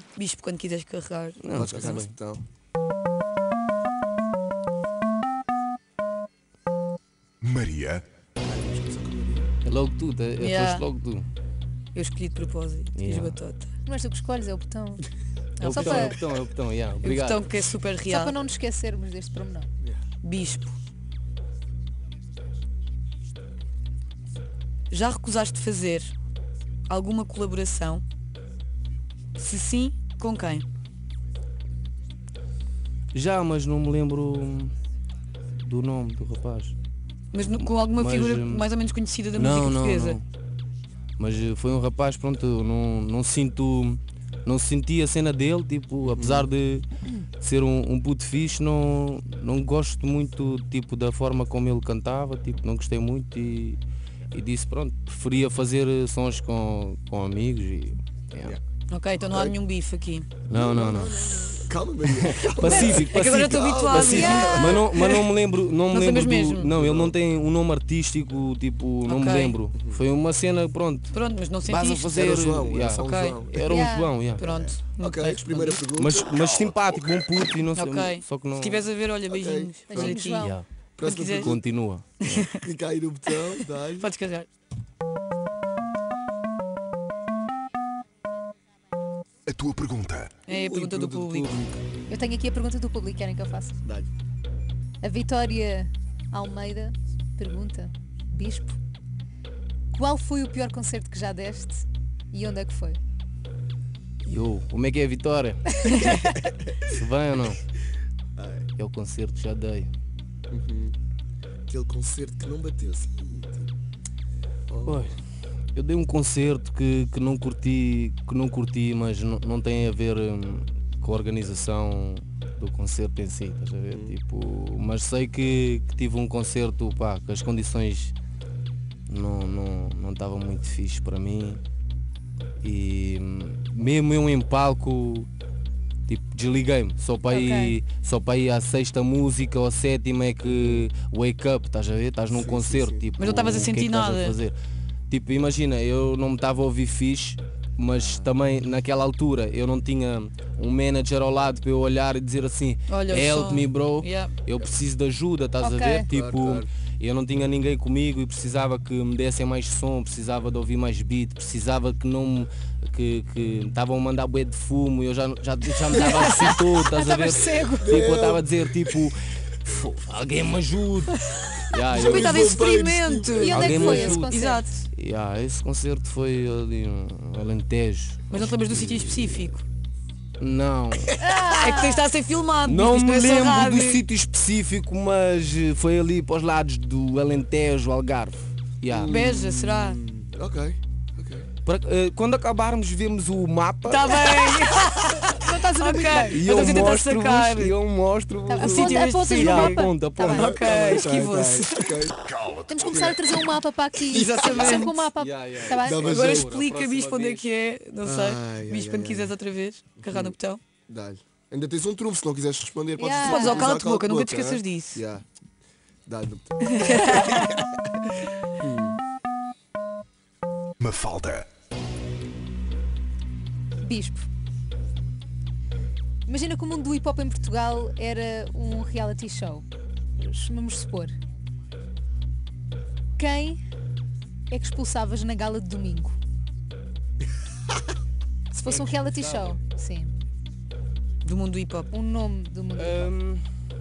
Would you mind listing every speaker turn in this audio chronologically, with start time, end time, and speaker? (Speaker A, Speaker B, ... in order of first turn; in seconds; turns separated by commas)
Speaker A: 0.1-1.4, Speaker B: 1.4-2.1, Speaker C: 1.5-2.4, Speaker D: 7.4-8.0, Speaker C: 8.4-9.5, Speaker B: 9.6-11.2, Speaker A: 10.4-10.8, Speaker A: 11.9-13.7, Speaker B: 12.9-13.4, Speaker E: 13.8-15.1, Speaker A: 15.6-16.2, Speaker B: 15.6-17.4, Speaker E: 15.6-16.1, Speaker A: 17.0-18.3, Speaker E: 18.1-19.7, Speaker A: 20.2-20.7, Speaker A: 24.9-26.1, Speaker A: 26.9-28.0, Speaker A: 29.4-30.7, Speaker B: 33.1-34.7, Speaker B: 35.6-36.7, Speaker A: 37.3-40.2, Speaker B: 37.5-38.6, Speaker B: 39.3-40.2, Speaker B: 41.2-46.9, Speaker C: 46.0-46.5, Speaker B: 47.4-53.8, Speaker B: 54.3-58.6, Speaker A: 58.9-60.3, Speaker C: 59.2-59.5, Speaker B: 60.5-71.1, Speaker C: 60.5-64.8, Speaker A: 62.6-65.3, Speaker E: 64.1-64.7, Speaker A: 65.9-66.7, Speaker C: 66.7-67.1, Speaker A: 69.0-69.6, Speaker C: 69.7-70.0, Speaker A: 71.1-72.2, Speaker B: 71.6-74.4, Speaker C: 72.1-73.7, Speaker A: 73.0-73.4, Speaker E: 73.6-74.1, Speaker A: 74.4-75.8, Speaker C: 74.4-76.3, Speaker B: 76.0-78.9, Speaker D: 76.7-76.9, Speaker A: 77.7-81.5, Speaker C: 79.3-80.2, Speaker E: 79.9-80.6, Speaker B: 80.2-80.7, Speaker C: 81.0-81.6, Speaker B: 81.4-82.5, Speaker A: 82.2-82.6, Speaker C: 82.6-84.1, Speaker A: 84.0-84.5, Speaker D: 89.5-90.3, Speaker A: 90.5-91.6, Speaker C: 90.5-91.8, Speaker E: 92.1-93.8, Speaker E: 95.0-98.8, Speaker E: 99.9-103.0, Speaker B: 104.2-105.7, Speaker B: 106.8-107.6, Speaker C: 108.4-108.7, Speaker B: 108.8-109.9, Speaker C: 110.5-111.0, Speaker C: 111.7-113.7, Speaker C: 114.7-115.1, Speaker B: 114.8-115.2, Speaker B: 115.7-128.1, Speaker B: 129.1-131.6, Speaker B: 132.6-135.3, Speaker B: 136.1-144.5, Speaker E: 137.3-137.8, Speaker C: 142.3-143.1, Speaker A: 143.2-144.4, Speaker B: 145.1-171.2, Speaker C: 147.9-148.3, Speaker A: 152.9-154.3, Speaker E: 155.6-156.1, Speaker C: 156.1-156.7, Speaker E: 165.9-167.9, Speaker C: 167.8-168.6, Speaker B: 171.7-172.5, Speaker C: 171.9-174.1, Speaker A: 171.9-174.8, Speaker E: 173.3-174.8, Speaker B: 173.5-178.8, Speaker A: 178.3-179.6, Speaker C: 178.9-179.3, Speaker B: 180.4-181.2, Speaker E: 181.2-182.1, Speaker A: 181.5-184.0, Speaker B: 182.6-189.1, Speaker C: 188.9-191.5, Speaker A: 189.0-190.0, Speaker B: 191.6-194.5, Speaker A: 193.8-197.7, Speaker E: 195.3-196.4, Speaker B: 196.3-200.7, Speaker E: 198.5-200.6, Speaker A: 198.6-202.0, Speaker C: 200.3-202.3, Speaker D: 202.3-202.8, Speaker E: 202.7-206.1, Speaker C: 204.0-204.9, Speaker A: 204.1-205.1, Speaker B: 205.2-207.5, Speaker C: 205.7-206.5, Speaker A: 206.0-210.6, Speaker C: 208.0-209.3, Speaker C: 210.0-210.3, Speaker C: 210.9-215.2, Speaker E: 213.0-213.7, Speaker A: 213.2-215.0, Speaker C: 216.1-217.7, Speaker A: 216.7-217.4, Speaker E: 217.1-217.4, Speaker C: 218.6-219.0, Speaker D: 220.8-221.5, Speaker E: 223.8-224.3, Speaker E: 226.2-229.6, Speaker E: 230.2-231.1, Speaker E: 233.2-233.6, Speaker E: 234.5-236.2, Speaker E: 238.5-240.1, Speaker B: 238.6-239.6, Speaker A: 241.2-241.9, Speaker E: 241.9-243.1, Speaker B: 242.7-243.4